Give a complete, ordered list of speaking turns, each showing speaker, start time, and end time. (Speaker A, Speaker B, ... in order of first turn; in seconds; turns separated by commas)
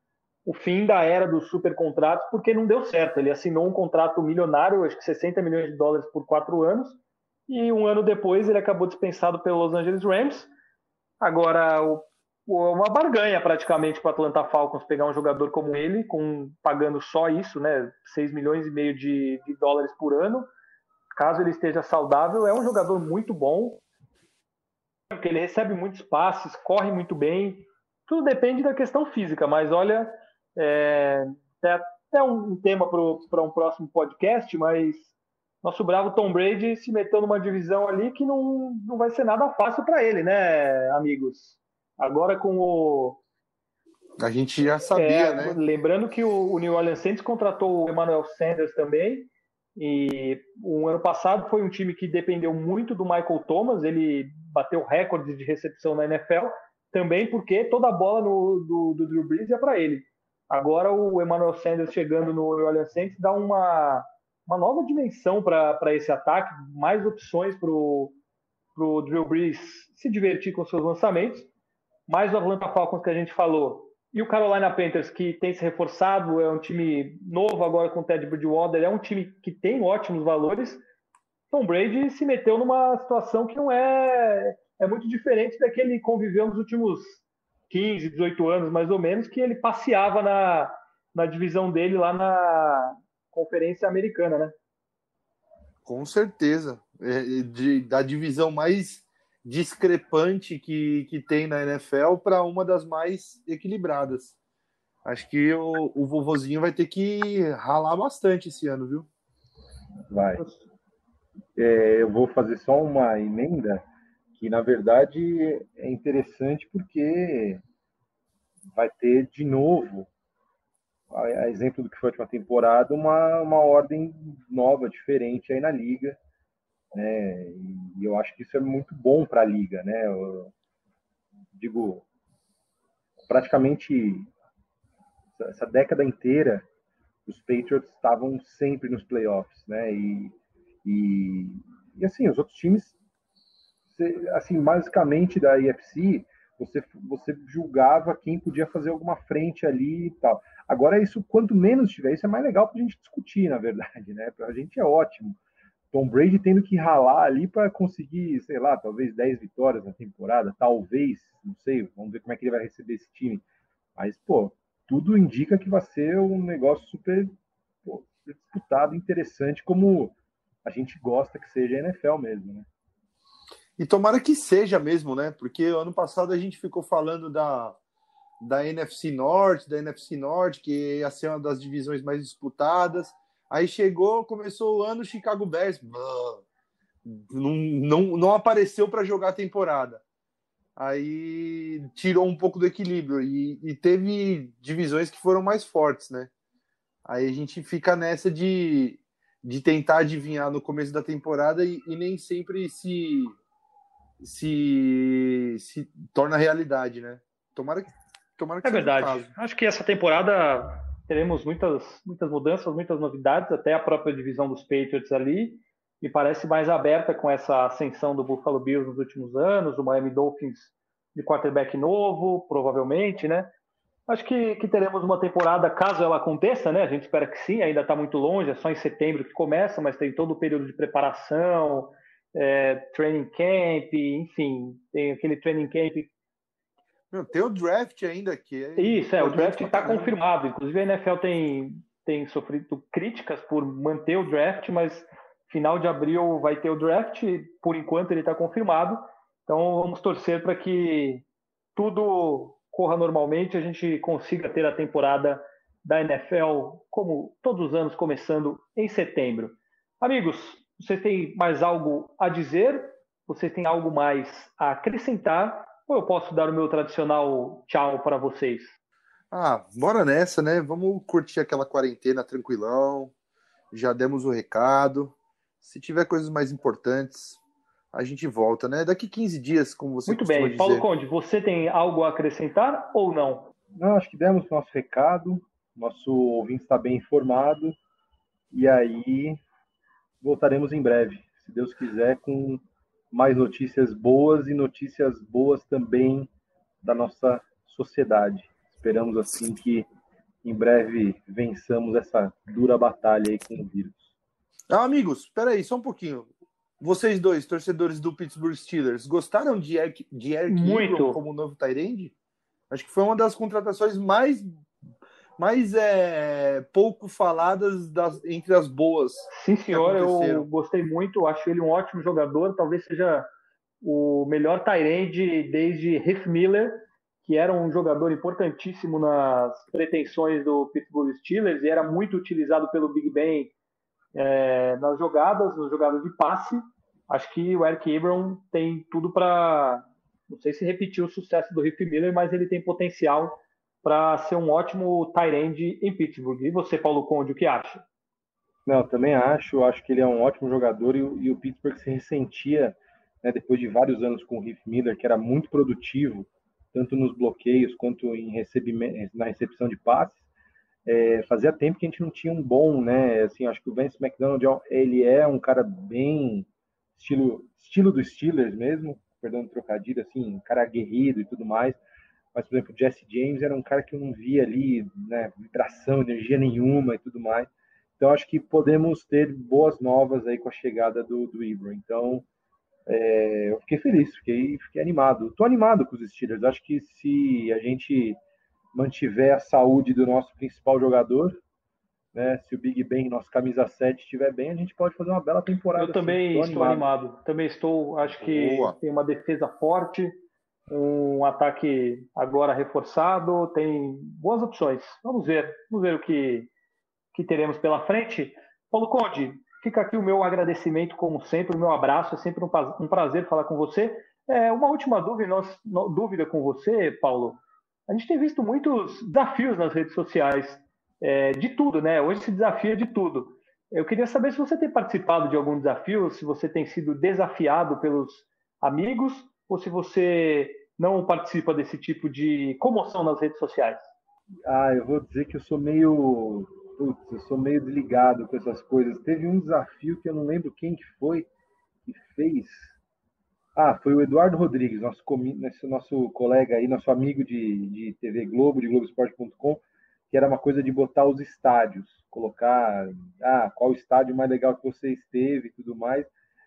Speaker A: 0.5-7.0, Speaker A: 7.5-10.5, Speaker A: 11.2-20.5, Speaker A: 21.1-23.8, Speaker A: 25.1-43.2, Speaker B: 44.2-45.6, Speaker A: 44.9-68.1, Speaker A: 68.8-71.5, Speaker A: 72.1-80.8, Speaker A: 81.5-94.5, Speaker B: 95.8-104.4, Speaker B: 105.0-109.1, Speaker C: 110.1-110.4, Speaker C: 111.5-117.6, Speaker C: 118.7-120.1, Speaker C: 121.1-126.2, Speaker C: 126.9-130.5, Speaker C: 131.5-132.0, Speaker C: 133.3-134.3, Speaker C: 135.3-136.7, Speaker C: 137.2-142.9, Speaker C: 143.9-155.4, Speaker C: 155.9-163.4, Speaker C: 164.0-167.3, Speaker C: 167.8-172.7, Speaker B: 173.8-177.8, Speaker B: 178.4-186.4, Speaker B: 187.0-190.0, Speaker B: 190.8-196.3, Speaker B: 197.0-203.3, Speaker B: 204.2-209.3, Speaker A: 208.6-223.5, Speaker A: 224.1-236.1, Speaker B: 237.1-240.1, Speaker A: 238.8-251.2, Speaker A: 251.8-268.7, Speaker B: 269.3-273.1, Speaker B: 273.7-277.4, Speaker B: 277.9-280.9, Speaker A: 280.1-283.5, Speaker C: 283.7-287.8, Speaker C: 288.5-289.4, Speaker C: 290.2-296.3, Speaker C: 296.8-299.9, Speaker C: 300.4-304.1, Speaker B: 304.7-306.3, Speaker B: 306.8-312.1, Speaker A: 310.5-311.2, Speaker B: 312.7-314.5, Speaker B: 315.4-320.5, Speaker A: 319.3-323.3, Speaker A: 323.8-333.5, Speaker A: 334.1-347.8, Speaker C: 348.6-360.2, Speaker C: 360.9-371.8, Speaker C: 372.3-382.2, Speaker C: 382.9-388.2, Speaker C: 388.7-391.4, Speaker C: 392.1-396.9, Speaker A: 395.8-400.1, Speaker B: 398.1-398.7, Speaker A: 400.7-406.5, Speaker A: 407.1-433.8, Speaker C: 434.4-441.3, Speaker C: 441.9-442.7, Speaker C: 443.6-456.1